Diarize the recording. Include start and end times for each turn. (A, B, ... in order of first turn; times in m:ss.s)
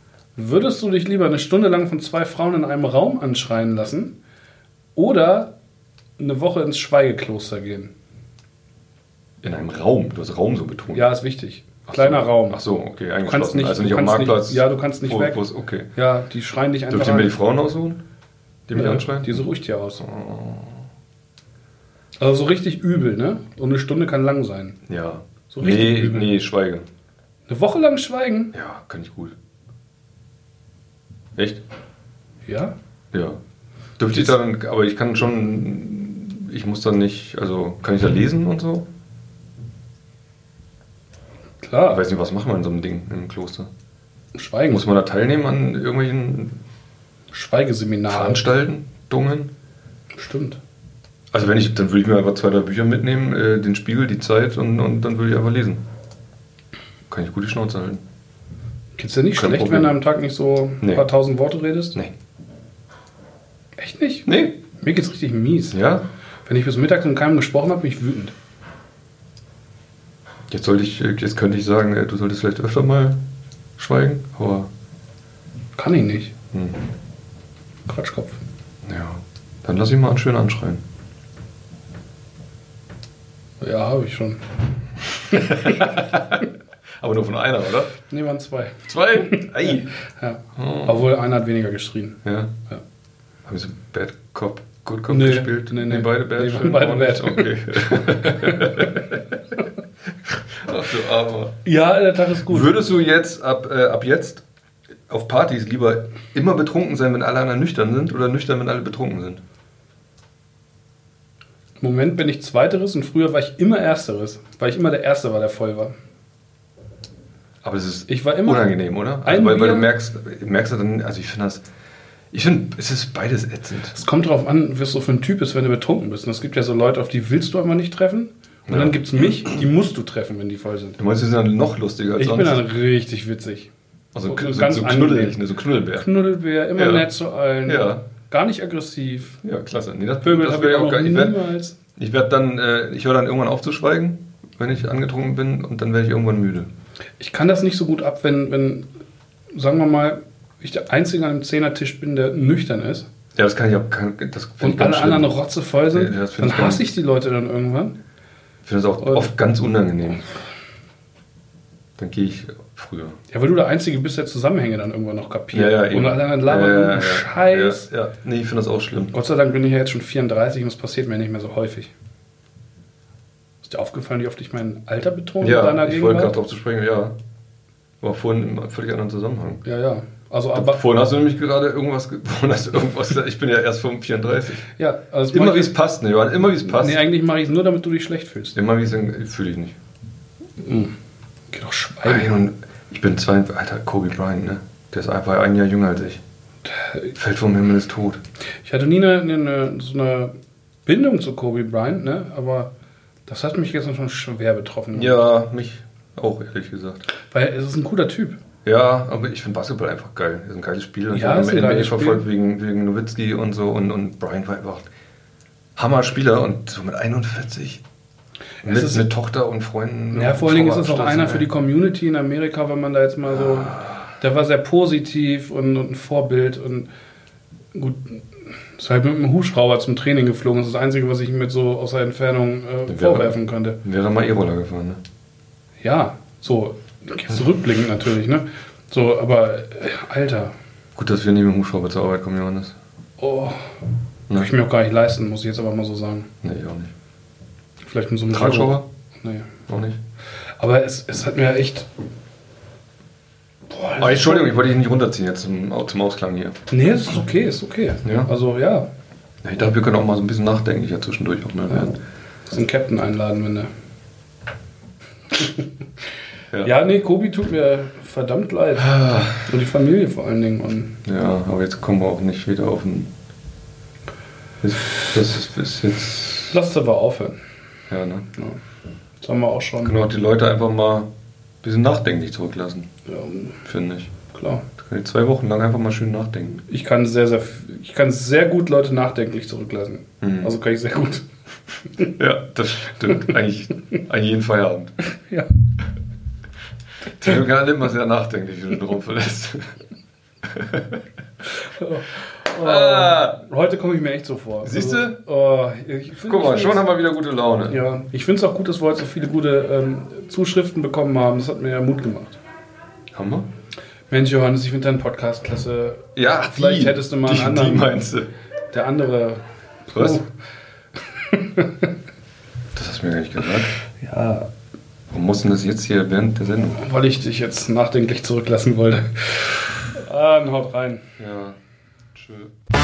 0:00.4-0:04.1 A
0:05.0-0:05.5 A
0:06.2-0:07.9 A
0:09.4-0:11.1 B
0:10.9-0:12.6 A
0:11.9-0:15.9 B
0:13.2-0:15.4 A
0:15.9-0:17.3 A
0:16.9-0:18.0 B
0:18.7-0:19.5 B
0:18.7-0:20.0 A
0:20.0-0:20.8 B
0:22.2-0:24.8 A
0:24.8-0:26.8 B
0:25.5-0:26.3 A
0:27.5-0:28.5 A
0:28.5-0:29.4 B
0:31.4-0:31.6 B
0:32.4-0:32.7 A
0:33.1-0:33.4 B
0:34.0-0:38.9 B
0:41.6-0:42.0 A
0:41.9-0:43.7 B
0:44.3-0:44.8 A
0:44.7-0:46.6 B
0:47.3-0:48.4 A
0:48.1-0:49.5 B
0:50.2-0:50.6 A
0:51.3-0:55.8 B
0:57.1-0:58.0 B
0:59.0-1:02.0 A
0:59.4-1:00.0 B
1:03.8-1:05.8 A
1:04.3-1:04.6 B
1:05.7-1:06.0 B
1:06.4-1:08.3 A
1:10.5-1:13.2 B
1:13.8-1:14.7 B
1:15.8-1:16.3 A
1:16.5-1:16.9 B
1:17.8-1:18.4 A
1:18.8-1:20.8 B
1:23.6-1:24.4 A
1:25.3-1:26.4 B
1:25.4-1:25.8 A
1:27.0-1:28.0 B
1:28.1-1:32.8 A
1:28.9-1:29.9 B
1:30.5-1:31.1 B
1:32.2-1:32.5 B
1:33.4-1:39.4 B
1:35.1-1:38.8 A
1:40.2-1:41.6 B
1:41.6-1:42.7 A
1:42.5-1:44.4 B
1:45.1-1:49.4 B
1:51.8-1:55.9 A
1:57.6-2:01.6 B
1:58.1-1:59.9 A
2:02.3-2:04.0 B
2:03.9-2:11.0 A
2:08.7-2:09.2 B
2:11.0-2:12.6 B
2:12.2-2:13.7 A
2:14.1-2:16.1 B
2:14.2-2:15.4 A
2:16.0-2:19.4 A
2:16.8-2:17.1 B
2:17.6-2:18.0 B
2:19.4-2:21.4 B
2:20.2-2:21.8 A
2:22.0-2:26.7 B
2:27.2-2:28.9 A
2:29.5-2:33.1 A
2:33.3-2:36.9 B
2:34.6-2:38.0 A
2:38.6-2:40.3 B
2:42.0-2:43.2 B
2:43.3-2:47.9 A
2:45.5-2:49.1 B
2:49.1-2:51.9 A
2:53.6-2:56.4 A
2:55.4-2:57.2 B
2:58.0-2:59.6 B
2:59.6-3:00.8 A
3:00.5-3:04.6 B
3:04.8-3:05.7 A
3:05.3-3:07.0 B
3:06.6-3:08.6 A
3:08.5-3:09.8 B
3:10.6-3:10.9 A
3:11.5-3:12.3 A
3:12.0-3:16.2 B
3:16.7-3:17.1 A
3:17.1-3:18.2 B
3:18.6-3:20.3 A
3:20.8-3:22.7 A
3:23.3-3:25.2 A
3:24.9-3:27.0 B
3:27.3-3:28.4 A
3:28.6-3:34.9 B
3:31.1-3:32.2 A
3:35.8-3:37.8 B
3:38.6-3:39.0 A
3:38.6-3:41.4 B
3:40.1-3:46.9 A
3:43.5-3:44.0 B
3:47.7-3:48.2 A
3:48.8-3:53.8 A
3:52.9-3:55.0 B
3:55.8-4:00.5 A
4:01.0-4:02.8 B
4:03.2-4:03.7 A
4:04.3-4:06.3 A
4:06.4-4:06.9 B
4:07.8-4:09.5 A
4:08.3-4:08.9 B
4:09.7-4:10.0 B
4:10.6-4:11.9 A
4:13.7-4:14.6 A
4:14.0-4:16.6 B
4:16.7-4:18.9 A
4:18.0-4:18.3 B
4:19.4-4:22.0 B
4:22.5-4:23.7 A
4:25.3-4:25.6 A
4:26.6-4:31.0 A
4:28.8-4:29.5 B
4:31.0-4:33.1 B
4:34.6-4:36.5 B
4:36.5-4:37.4 A
4:37.9-4:38.3 B
4:39.2-4:40.0 A
4:39.8-4:41.1 B
4:41.6-4:42.9 B
4:43.1-4:43.6 A
4:43.6-4:44.1 B
4:44.3-4:44.6 A
4:44.8-4:46.6 B
4:46.7-4:51.2 A
4:50.2-4:50.5 B
4:52.0-4:54.9 B
4:55.2-4:55.5 A
4:57.1-4:59.7 B
5:00.4-5:01.0 B
5:01.7-5:06.9 A
5:02.5-5:03.4 B
5:04.6-5:05.2 B
5:06.3-5:07.8 B
5:07.7-5:12.4 A
5:13.1-5:13.5 B
5:14.1-5:18.0 A
5:16.2-5:18.3 B
5:18.7-5:20.2 A
5:19.9-5:20.2 B
5:21.3-5:21.9 A
5:22.7-5:23.7 B
5:24.0-5:24.5 A
5:25.1-5:26.8 B
5:26.8-5:31.0 A
5:31.2-5:31.6 B
5:32.1-5:32.5 B